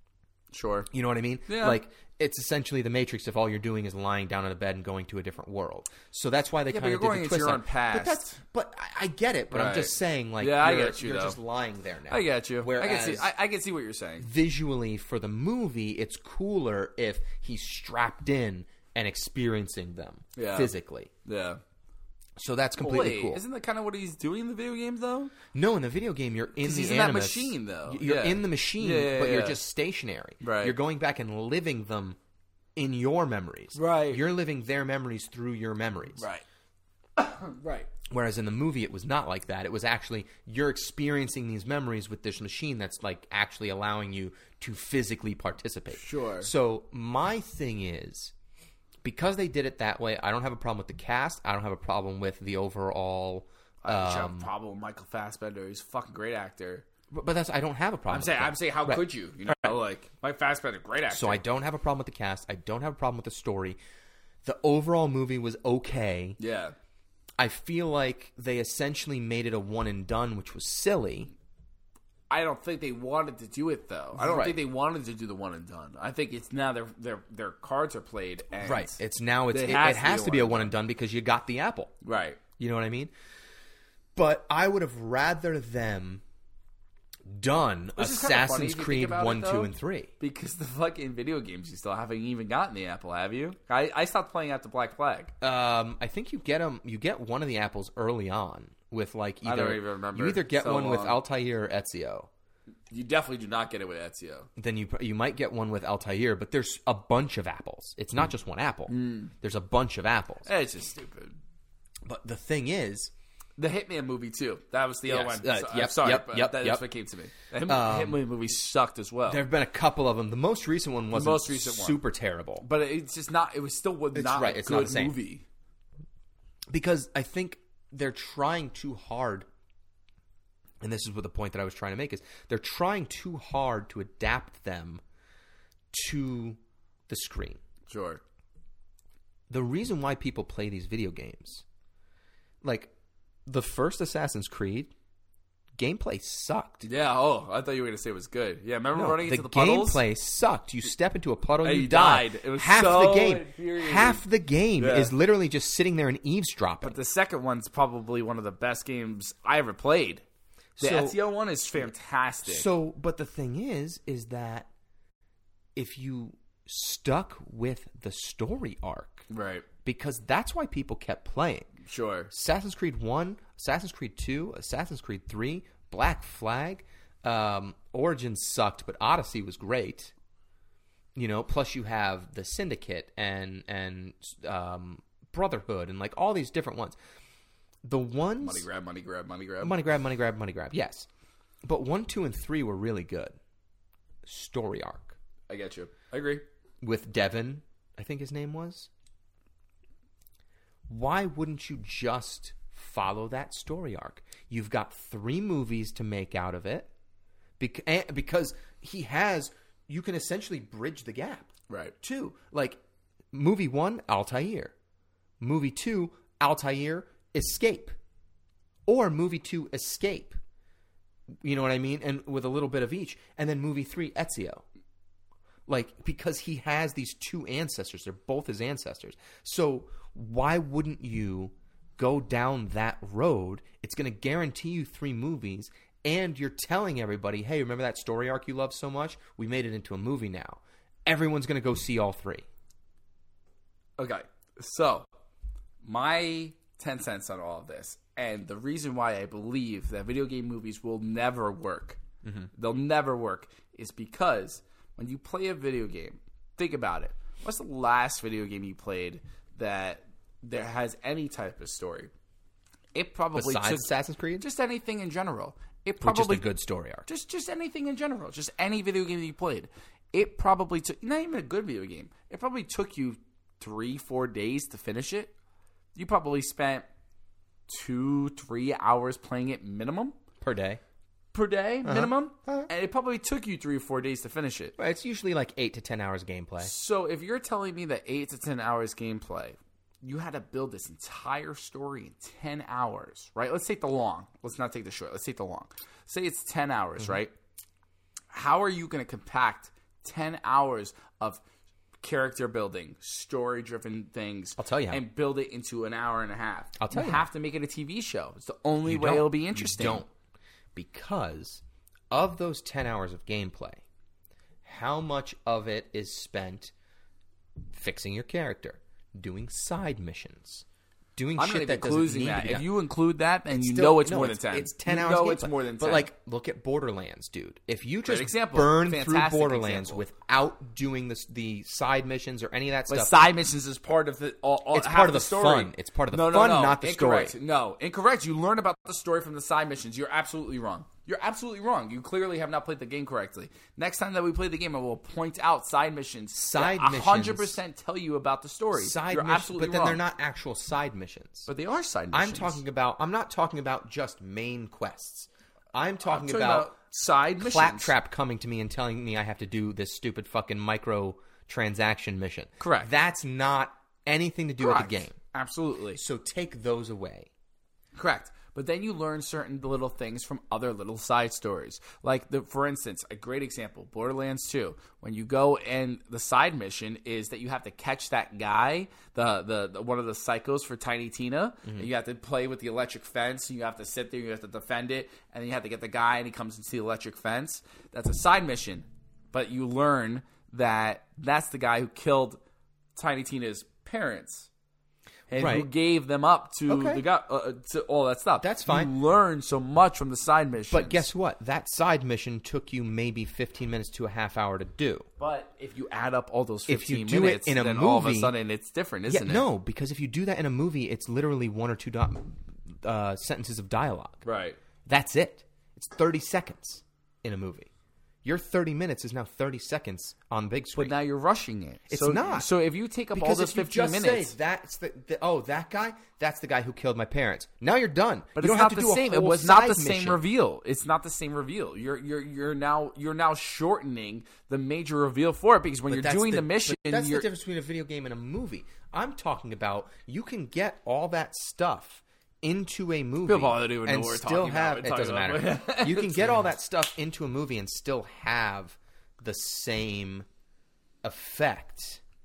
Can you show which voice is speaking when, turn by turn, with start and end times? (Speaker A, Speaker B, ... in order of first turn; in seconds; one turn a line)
Speaker A: 0.5-0.9
Speaker B: 0.9-13.3
Speaker A: 1.5-1.8
Speaker A: 6.7-8.4
Speaker A: 9.5-11.4
Speaker A: 12.1-14.3
Speaker B: 14.2-21.1
Speaker A: 20.4-20.7
Speaker A: 21.2-21.6
Speaker B: 22.4-23.4
Speaker A: 22.8-25.3
Speaker B: 25.5-32.2
Speaker A: 26.6-29.6
Speaker A: 30.4-30.8
Speaker B: 32.8-36.2
Speaker A: 33.7-34.2
Speaker A: 36.2-36.4
Speaker A: 37.2-37.9
Speaker B: 38.1-48.3
Speaker A: 45.9-46.5
Speaker B: 49.0-54.5
Speaker A: 53.8-56.9
Speaker B: 57.1-59.8
Speaker A: 58.1-61.4
Speaker B: 61.1-63.8
Speaker B: 64.4-66.4
Speaker A: 66.4-66.7
Speaker B: 67.4-71.3
Speaker A: 72.3-79.0
Speaker B: 74.2-74.6
Speaker B: 78.6-81.9
Speaker A: 79.5-80.7
Speaker A: 82.0-82.4
Speaker B: 82.6-83.1
Speaker B: 84.1-86.2
Speaker B: 87.2-90.1
Speaker A: 88.0-95.3
Speaker B: 95.4-102.3
Speaker A: 99.4-101.2
Speaker A: 102.9-104.5
Speaker B: 104.6-110.5
Speaker A: 108.9-109.3
Speaker A: 110.4-111.4
Speaker B: 112.0-113.1
Speaker A: 113.6-119.4
Speaker B: 115.1-116.8
Speaker B: 117.6-118.2
Speaker B: 119.3-122.7
Speaker A: 121.1-122.0
Speaker A: 122.6-125.4
Speaker B: 124.1-125.1
Speaker B: 126.7-129.5
Speaker B: 130.8-135.0
Speaker B: 135.9-136.6
Speaker B: 137.1-137.6
Speaker A: 137.9-138.2
Speaker B: 139.5-141.6
Speaker B: 142.6-142.9
Speaker B: 143.4-144.9
Speaker B: 145.8-146.9
Speaker A: 146.8-150.0
Speaker B: 148.9-157.0
Speaker A: 151.6-154.2
Speaker A: 154.8-155.1
Speaker A: 156.8-160.2
Speaker B: 160.8-161.2
Speaker A: 160.8-162.7
Speaker B: 162.4-164.7
Speaker B: 165.7-169.3
Speaker A: 169.3-169.7
Speaker B: 169.8-171.7
Speaker A: 171.8-172.3
Speaker B: 172.3-180.1
Speaker B: 181.1-187.0
Speaker B: 187.8-188.7
Speaker A: 188.4-189.8
Speaker B: 189.6-191.1
Speaker B: 191.6-193.4
Speaker B: 194.2-195.2
Speaker A: 195.5-196.4
Speaker B: 196.8-198.9
Speaker B: 200.9-206.9
Speaker B: 207.6-211.5
Speaker A: 211.7-211.9
Speaker B: 212.0-212.8
Speaker B: 213.3-214.7
Speaker B: 215.4-217.9
Speaker B: 218.9-220.4
Speaker B: 221.4-224.6
Speaker B: 225.7-242.4
Speaker A: 244.0-245.1
Speaker A: 245.8-252.0
Speaker B: 252.2-252.5
Speaker A: 252.5-262.1
Speaker A: 262.9-266.5
Speaker B: 263.3-264.4
Speaker B: 266.0-267.1
Speaker A: 267.1-275.3
Speaker A: 275.9-276.9
Speaker A: 277.7-280.1
Speaker B: 280.4-280.8
Speaker A: 281.3-284.7
Speaker B: 281.8-282.7
Speaker B: 284.8-286.7
Speaker A: 286.6-297.3
Speaker A: 298.3-301.4
Speaker A: 302.0-310.1
Speaker B: 304.6-305.0
Speaker B: 306.8-307.3
Speaker B: 308.8-310.1
Speaker B: 310.7-313.8
Speaker B: 314.6-316.7
Speaker B: 317.7-320.6
Speaker B: 321.1-322.7
Speaker A: 321.4-326.1
Speaker B: 323.5-333.2
Speaker A: 328.1-330.0
Speaker A: 332.9-350.0
Speaker B: 334.7-337.4
Speaker B: 346.3-347.6
Speaker B: 348.8-351.5
Speaker A: 351.5-352.6
Speaker B: 352.1-356.7
Speaker A: 356.0-357.9
Speaker B: 357.4-365.1
Speaker A: 362.6-362.9
Speaker A: 364.6-366.0
Speaker B: 365.9-367.3
Speaker A: 367.9-392.4
Speaker A: 392.9-394.5
Speaker A: 395.3-401.1
Speaker B: 395.3-395.7
Speaker B: 396.7-397.0
Speaker B: 398.4-398.9
Speaker B: 400.7-405.1
Speaker A: 405.2-409.4
Speaker B: 406.7-408.3
Speaker B: 409.1-414.2
Speaker A: 414.2-414.6
Speaker B: 414.9-417.7
Speaker B: 418.2-420.9
Speaker A: 420.8-424.3
Speaker B: 421.9-422.5
Speaker B: 423.1-430.2
Speaker A: 428.4-437.3
Speaker B: 435.9-450.3
Speaker A: 443.2-446.4
Speaker B: 451.0-452.0